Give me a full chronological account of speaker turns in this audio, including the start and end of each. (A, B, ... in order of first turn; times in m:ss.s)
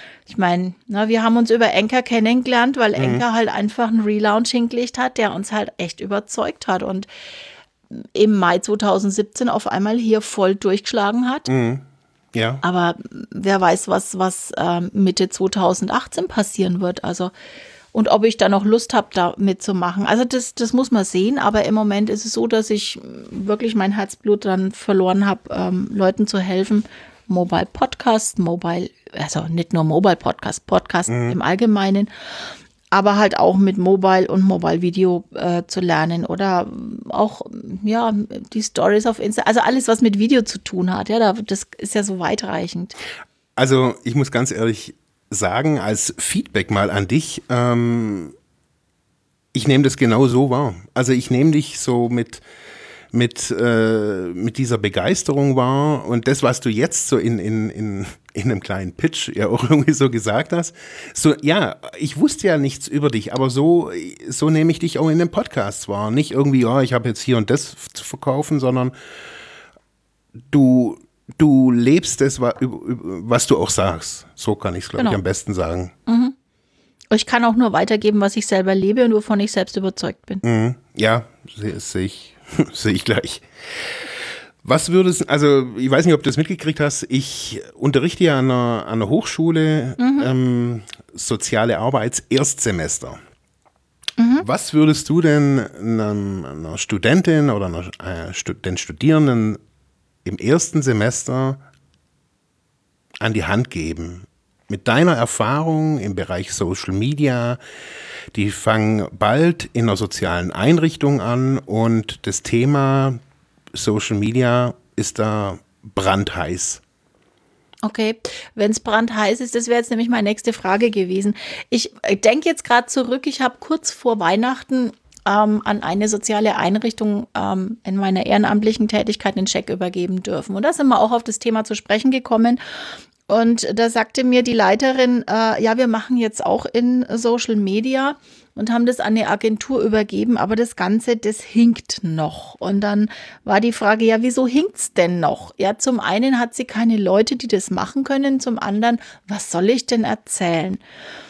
0:00.3-0:07.1 A
0:03.0-0:03.2 B
0:07.9-0:11.5 A
0:11.5-0:12.6 B
0:12.6-0:17.3 A
0:17.9-0:32.1 A
0:31.1-0:31.4 B
0:32.9-0:43.0 A
0:43.6-0:48.4 B
0:49.5-0:52.4 B
0:53.1-1:08.9 B
1:10.5-1:15.9 B
1:16.0-1:16.4 A
1:17.1-1:20.4 A
1:20.4-1:33.2 B
1:30.0-1:30.3 A
1:34.2-1:34.4 A
1:34.4-1:39.6 B
1:40.2-1:41.6 B
1:43.2-1:47.6 B
1:48.3-1:53.2 B
1:53.7-1:56.8 B
1:57.8-2:12.6 A
2:13.3-2:30.8 A